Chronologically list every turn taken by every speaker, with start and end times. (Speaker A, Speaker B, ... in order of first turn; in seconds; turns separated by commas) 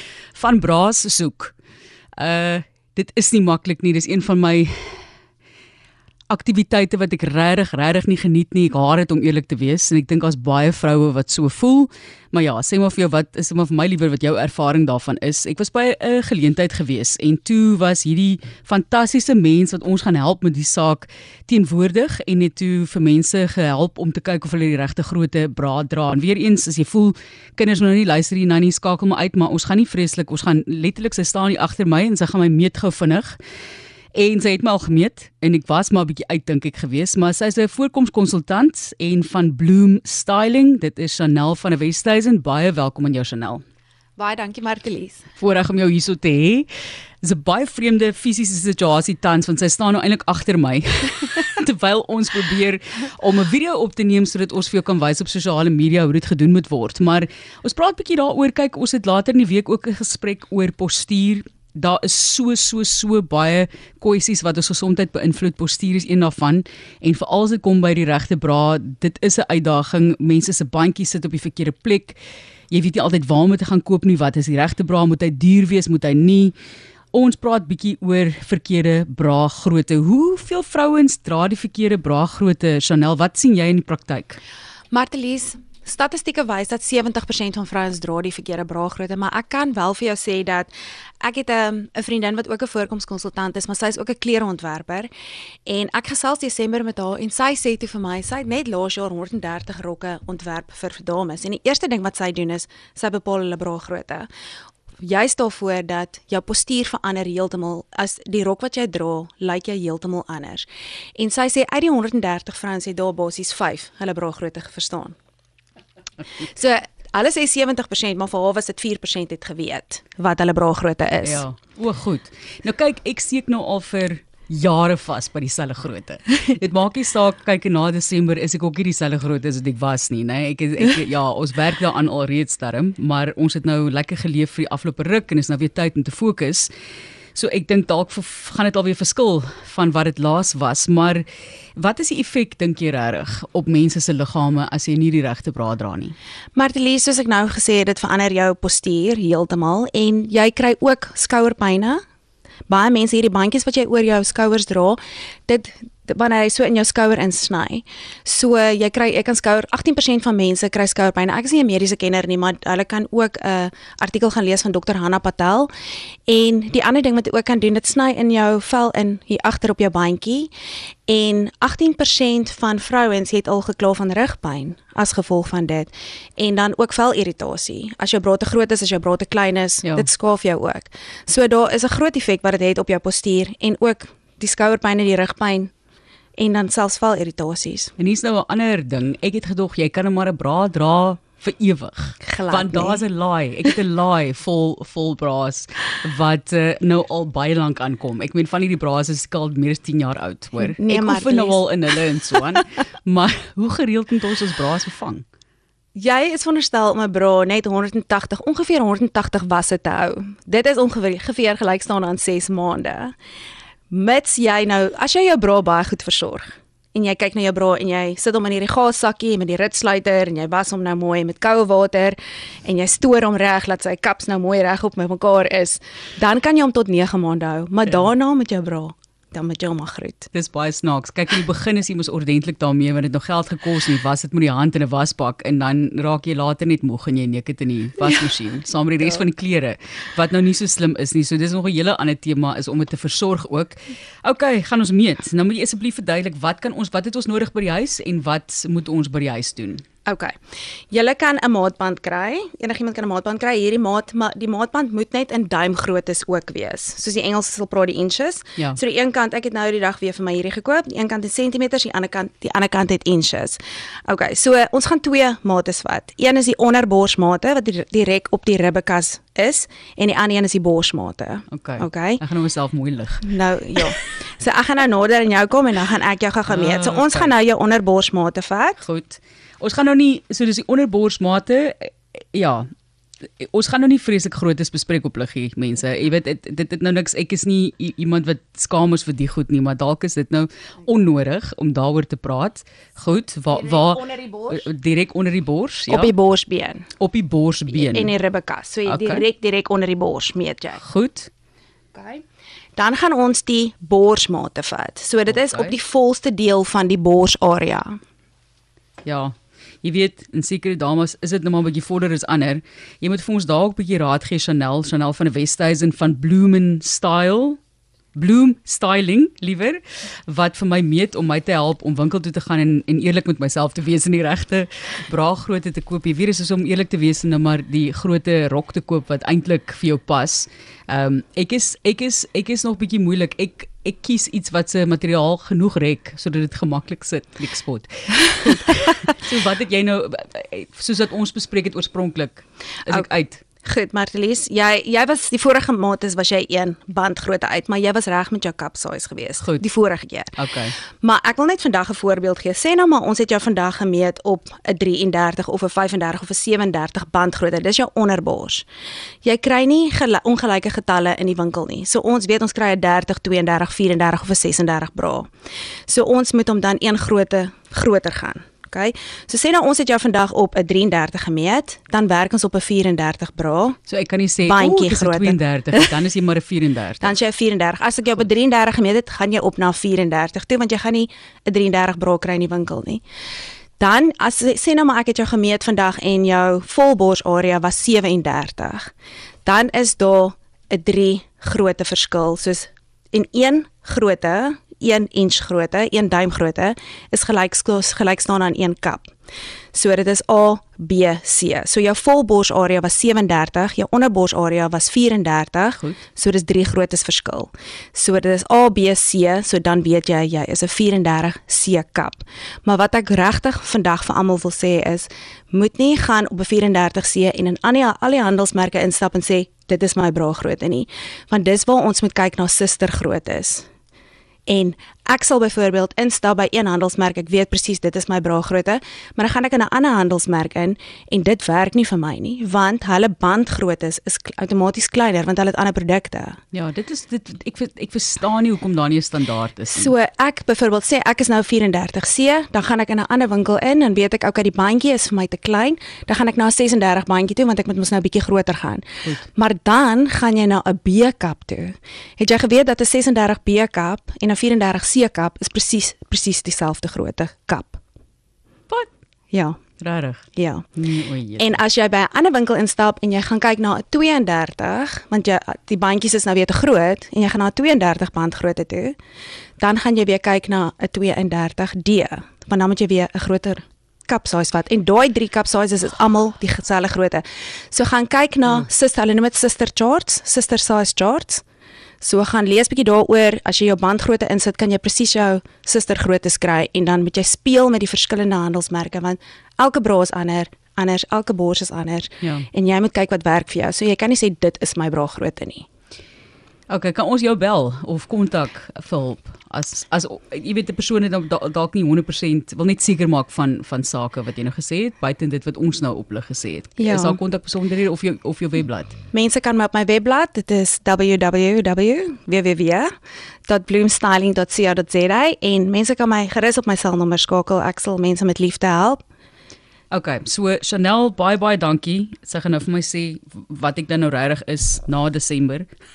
Speaker A: 0.3-1.5, Speaker A: 2.2-5.0, Speaker A: 6.3-33.4, Speaker A: 34.1-43.6, Speaker B: 44.2-45.2, Speaker A: 45.4-46.7, Speaker A: 47.2-72.2, Speaker A: 72.7-76.5, Speaker A: 77.1-84.4, Speaker B: 84.9-95.1, Speaker B: 95.7-104.3, Speaker B: 105.0-115.2, Speaker B: 116.4-121.4, Speaker A: 121.2-136.7, Speaker A: 137.3-141.2, Speaker A: 141.8-146.2, Speaker B: 146.6-152.0, Speaker B: 152.7-165.7, Speaker B: 166.3-170.5, Speaker B: 171.1-185.7, Speaker B: 186.4-187.9, Speaker A: 188.0-205.2, Speaker B: 192.2-193.0, Speaker B: 200.6-201.6, Speaker B: 205.9-213.2, Speaker B: 213.9-230.3, Speaker A: 230.3-249.8, Speaker B: 250.1-250.4, Speaker B: 250.9-272.2, Speaker A: 271.5-273.3, Speaker B: 273.2-278.8, Speaker A: 276.5-277.3, Speaker A: 278.8-282.7, Speaker A: 283.4-296.1, Speaker B: 293.5-294.7, Speaker B: 295.9-296.9, Speaker A: 297.0-298.1, Speaker B: 297.7-300.8, Speaker A: 298.9-299.2, Speaker A: 300.8-301.3, Speaker B: 301.9-302.2, Speaker B: 302.8-308.0, Speaker A: 305.3-305.8, Speaker A: 309.1-317.6, Speaker A: 318.1-343.4, Speaker B: 343.6-358.6, Speaker A: 350.4-350.8, Speaker B: 359.2-365.3, Speaker B: 365.9-373.8, Speaker A: 373.9-377.1, Speaker B: 374.4-375.9, Speaker B: 377.0-383.0, Speaker B: 383.8-388.9, Speaker B: 389.4-399.1, Speaker B: 399.7-423.7, Speaker B: 424.5-436.4, Speaker A: 436.5-439.9, Speaker B: 439.7-457.8, Speaker B: 459.3-459.6, Speaker A: 459.8-460.2, Speaker B: 460.4-460.7, Speaker A: 460.8-461.6, Speaker B: 461.4-469.0, Speaker B: 469.6-481.4, Speaker B: 482.0-495.7, Speaker A: 492.2-492.5, Speaker A: 496.7-509.0, Speaker B: 506.8-507.2, Speaker B: 509.1-512.9, Speaker B: 513.5-519.0, Speaker A: 519.9-525.7